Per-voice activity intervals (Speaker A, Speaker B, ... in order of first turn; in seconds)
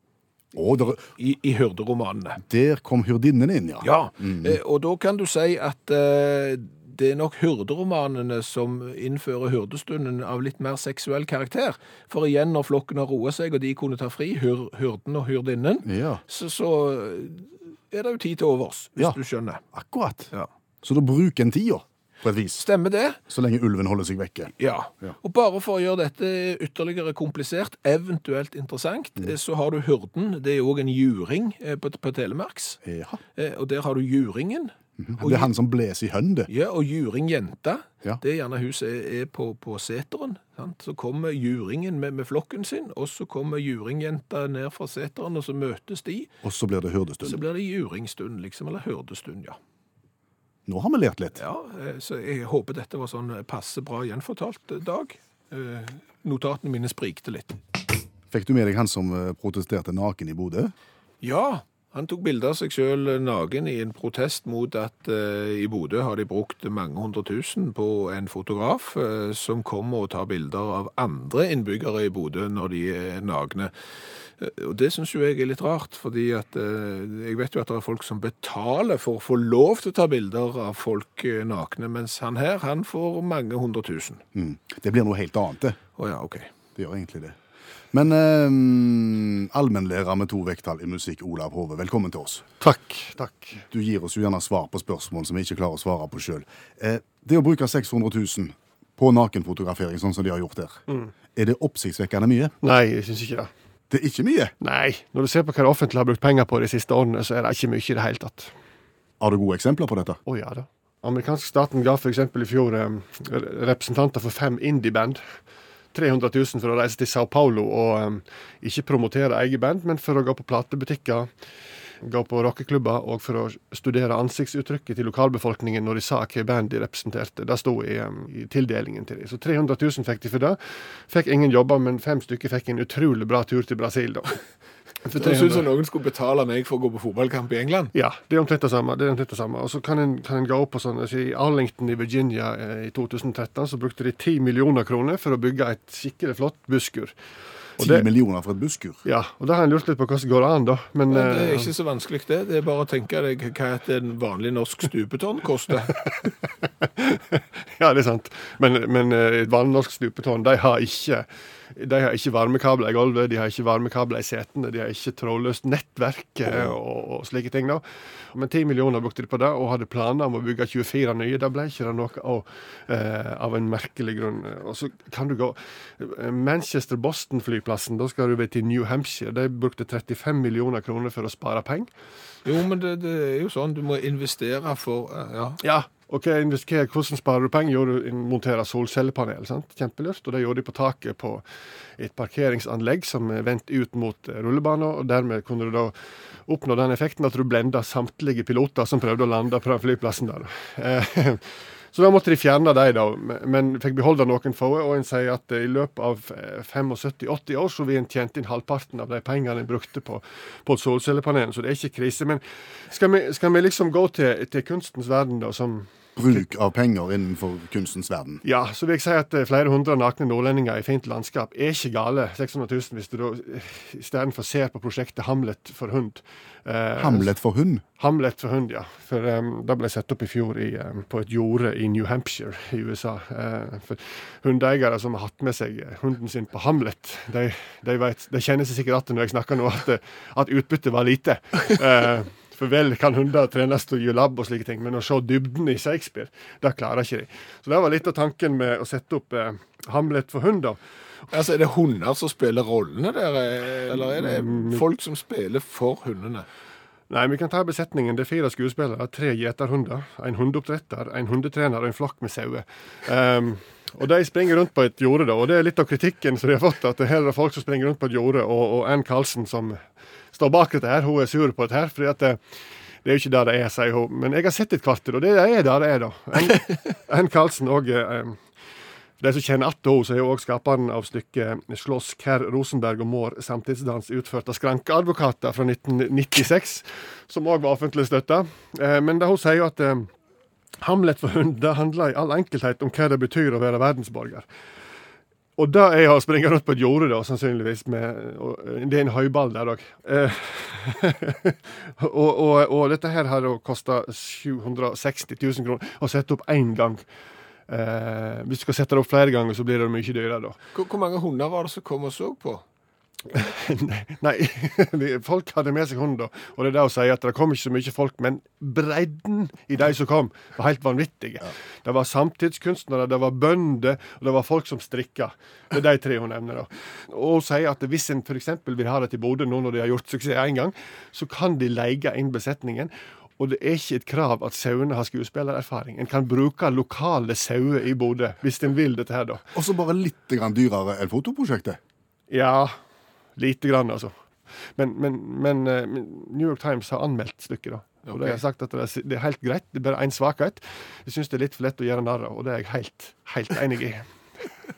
Speaker A: 0.5-1.1, 2.4-4.6, 15.8-16.2, 19.7-20.3, 20.8-22.6, 23.3-25.1, 32.8-33.2, 35.0-36.5, 46.4-47.4, 50.6-51.4, 58.3-60.7, 84.3-85.8, 86.8-87.3, 87.9-92.4, 93.7-100.8, 101.3-102.5, 103.9-104.5, 109.2-110.2, 147.8-149.0, 216.2-218.4, 227.0-227.8, 339.5-341.8
Speaker B: 1.1-2.4, 3.8-19.6, 22.6-23.2, 24.6-32.8, 33.3-35.5, 36.5-46.3, 47.2-49.6, 51.4-57.6, 61.2-73.7, 74.4-84.2, 86.0-86.5, 135.1-137.9, 151.1-156.0, 182.4-185.6, 251.3-256.5, 310.7-312.6, 348.1-348.4
Speaker C: 92.6-93.6, 102.6-103.5, 104.6-108.5, 110.3-115.2, 115.9-121.3, 122.0-134.4, 135.0-135.7, 137.9-147.1, 147.8-148.1, 149.0-151.7, 156.8-181.9, 185.6-191.4, 192.0-195.9, 196.4-215.9, 218.4-227.3, 228.0-250.8, 254.0-254.8, 257.1-269.8, 270.3-272.4, 273.0-278.4, 279.2-290.1, 290.8-294.4, 295.6-307.0, 307.7-310.6, 313.3-339.4, 342.3-342.7, 343.4-344.1, 344.8-354.0